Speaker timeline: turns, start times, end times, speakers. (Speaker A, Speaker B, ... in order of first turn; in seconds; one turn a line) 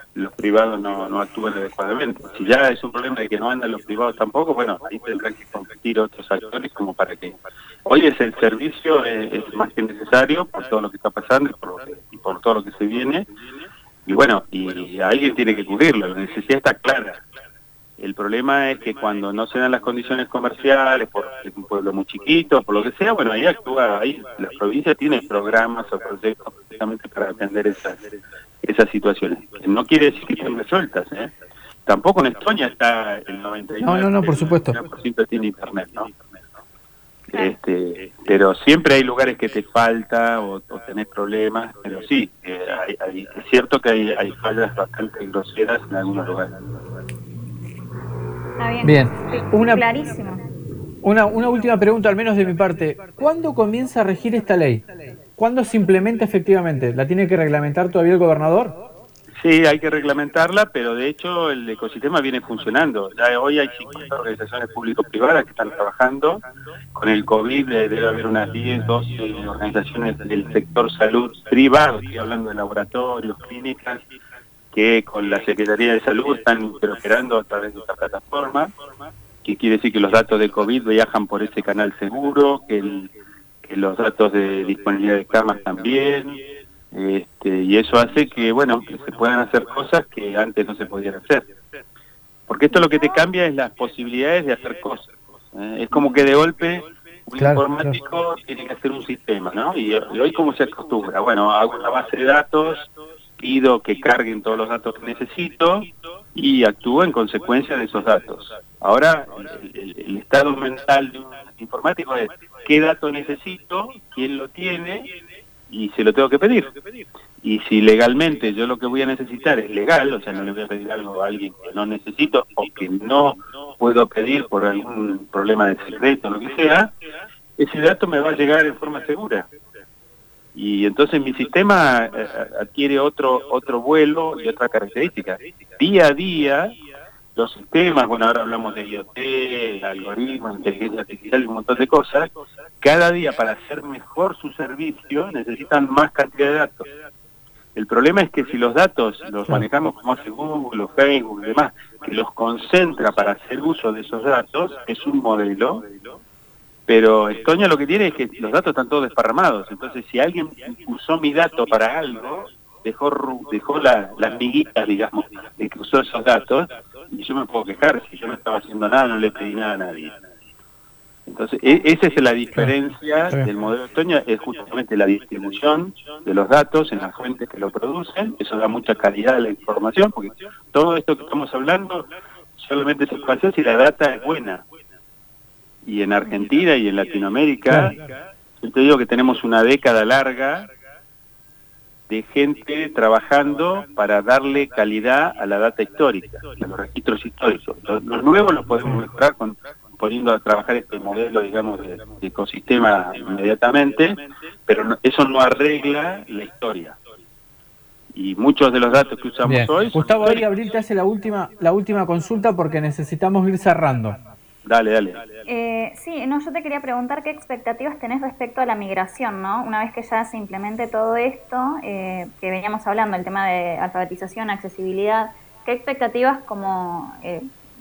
Speaker A: 0.1-13.2
Speaker A: 14.1-17.2
Speaker A: 18.0-28.0
Speaker A: 28.6-31.3
Speaker A: 31.9-36.1
Speaker B: 33.8-34.8
Speaker A: 37.3-46.5
Speaker C: 48.6-50.4
Speaker B: 48.8-49.8
Speaker B: 51.0-54.8
Speaker B: 55.4-58.8
Speaker A: 59.4-66.4
Speaker A: 66.9-74.0
Speaker A: 74.7-78.7
Speaker A: 79.4-83.1
Speaker A: 83.6-86.4
Speaker A: 86.9-91.5
Speaker A: 92.5-115.1
Speaker B: 97.4-98.0
Speaker A: 115.7-116.7
Speaker A: 117.4-126.9
Speaker A: 127.6-129.5
Speaker A: 130.5-136.7
Speaker A: 137.3-142.3
Speaker A: 142.8-146.8
Speaker A: 147.7-155.9
Speaker A: 156.9-170.1
Speaker A: 171.3-184.6
Speaker A: 185.8-188.0
Speaker B: 187.7-187.9
Speaker A: 188.6-190.7
Speaker A: 192.1-204.2
Speaker A: 204.7-207.0
Speaker A: 208.1-210.4
Speaker B: 209.4-214.2
Speaker A: 214.6-215.2
Speaker C: 215.4-227.5